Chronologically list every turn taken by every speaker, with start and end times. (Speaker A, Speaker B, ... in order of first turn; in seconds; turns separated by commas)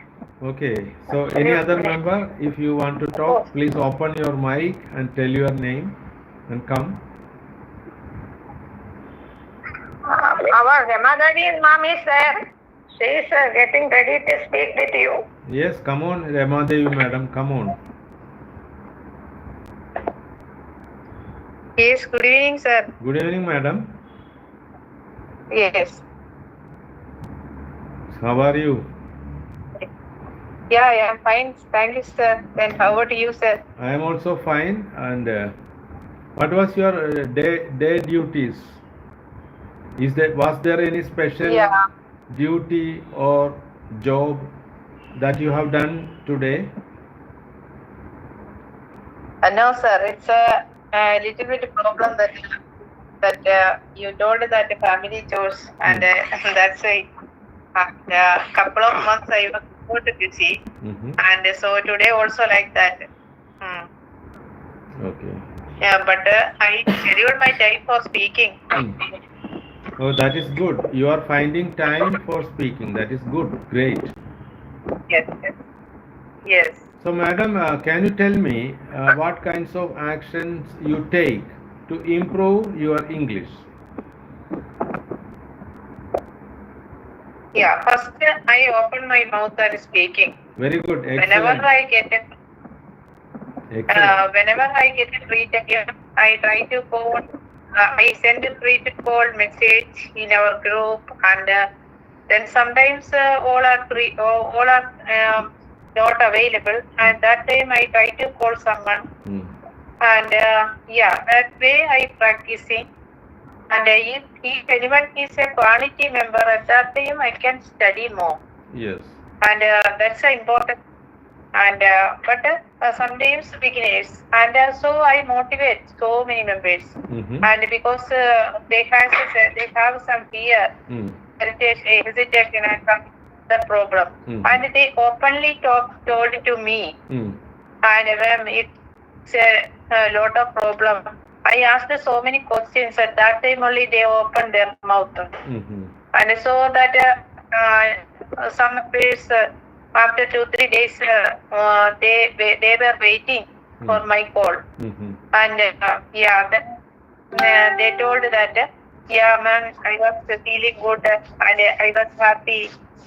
Speaker A: 0.4-6.0, Speaker B: 1.3-1.9, Speaker A: 6.5-7.0, Speaker B: 10.1-12.4, Speaker B: 13.0-15.2, Speaker A: 15.5-17.8, Speaker C: 21.8-22.9, Speaker A: 23.0-23.9, Speaker C: 25.5-26.0, Speaker A: 28.1-28.9, Speaker C: 30.7-33.6, Speaker A: 33.8-35.5, Speaker A: 36.4-38.8, Speaker A: 40.0-41.7, Speaker C: 41.5-41.8, Speaker A: 42.3-44.5, Speaker A: 45.2-46.7, Speaker C: 49.4-52.6, Speaker C: 53.2-57.1, Speaker C: 57.8-60.6, Speaker A: 60.8-61.2, Speaker C: 61.2-63.1, Speaker C: 63.6-63.9, Speaker A: 65.0-65.4, Speaker C: 65.8-68.8, Speaker A: 68.8-69.0, Speaker A: 70.0-74.1, Speaker C: 75.1-75.5, Speaker C: 76.5-76.8, Speaker A: 77.0-83.7, Speaker C: 87.5-90.4, Speaker A: 90.6-91.7, Speaker C: 91.2-92.2, Speaker A: 93.7-94.2, Speaker C: 93.9-101.7, Speaker C: 102.3-109.1, Speaker A: 109.2-109.5, Speaker C: 110.0-112.9, Speaker C: 113.7-118.4, Speaker A: 118.7-119.2, Speaker C: 119.4-120.8, Speaker C: 121.5-130.7, Speaker A: 127.1-127.5, Speaker A: 130.9-131.2, Speaker C: 131.4-136.9, Speaker A: 134.3-134.6, Speaker A: 137.1-137.4, Speaker C: 137.8-138.7, Speaker C: 139.3-145.3, Speaker A: 145.4-145.9, Speaker C: 146.1-154.6, Speaker A: 154.8-155.2, Speaker C: 155.3-156.8, Speaker C: 157.3-162.7